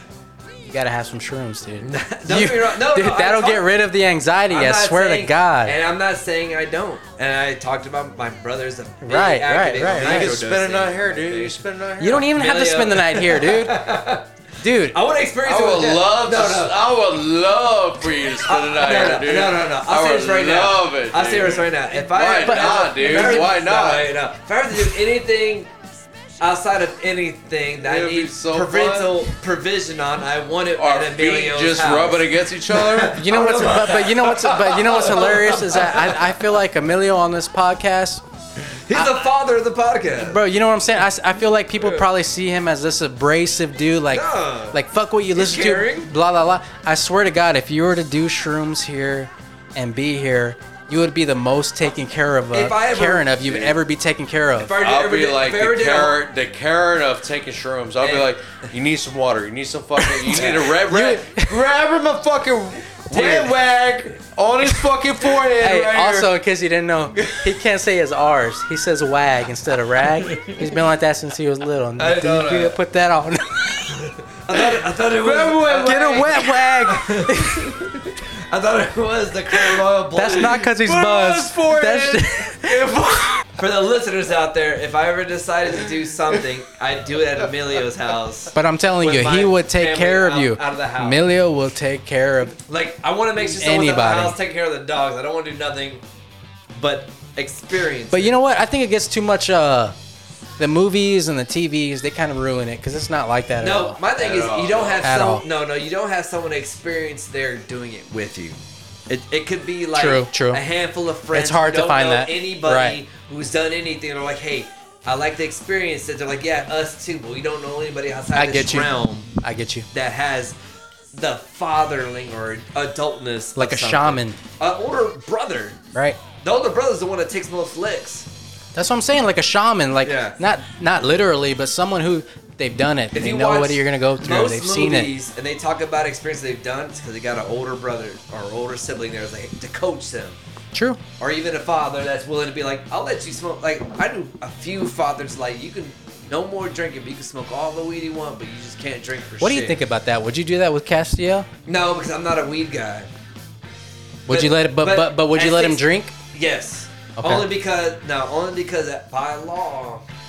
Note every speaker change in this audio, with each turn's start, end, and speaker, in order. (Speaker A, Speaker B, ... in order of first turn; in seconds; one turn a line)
Speaker A: 0.6-5.8
Speaker B: 1.8-3.7
Speaker B: 4.5-11.6
Speaker A: 9.0-10.3
Speaker C: 9.9-12.3
Speaker A: 12.0-13.9
Speaker B: 12.3-14.3
Speaker A: 14.6-15.0
Speaker B: 14.9-16.8
Speaker C: 15.4-24.1
Speaker B: 18.4-25.7
Speaker A: 22.4-23.5
Speaker B: 26.4-36.4
Speaker C: 27.8-29.3
Speaker C: 30.8-33.2
Speaker A: 33.2-38.2
Speaker B: 38.9-40.4
Speaker A: 38.9-39.2
Speaker A: 40.2-54.7
Speaker B: 41.8-42.1
Speaker B: 44.1-44.8
Speaker B: 45.4-46.1
Speaker B: 52.5-53.8
Speaker B: 54.6-56.2
Speaker C: 54.8-66.3
Speaker B: 58.0-58.3
Speaker A: 60.0-61.6
Speaker B: 60.3-60.8
Speaker B: 63.1-63.9
Speaker A: 65.6-73.9
Speaker B: 70.2-70.7
Speaker B: 72.0-72.8
Speaker B: 74.0-80.7
Speaker C: 75.2-76.4
Speaker A: 75.7-77.7
Speaker A: 80.2-82.8
Speaker C: 80.8-83.5
Speaker B: 83.6-91.2
Speaker A: 88.5-92.6
Speaker B: 92.7-96.0
Speaker A: 93.4-94.4
Speaker B: 96.7-98.3
Speaker A: 98.1-100.0
Speaker A: 100.6-104.0
Speaker B: 103.6-119.3
Speaker C: 104.2-105.1
Speaker A: 105.0-105.4
Speaker A: 109.9-110.6
Speaker A: 111.3-113.0
Speaker A: 118.3-119.9
Speaker B: 119.9-120.6
Speaker B: 121.1-125.8
Speaker A: 123.6-124.4
Speaker B: 126.4-128.3
Speaker A: 128.8-135.1
Speaker B: 130.0-130.4
Speaker B: 133.1-140.4
Speaker A: 140.7-141.0
Speaker B: 141.2-149.8
Speaker A: 149.4-151.5
Speaker B: 151.7-153.1
Speaker A: 154.3-156.1
Speaker B: 154.3-160.1
Speaker A: 157.2-157.5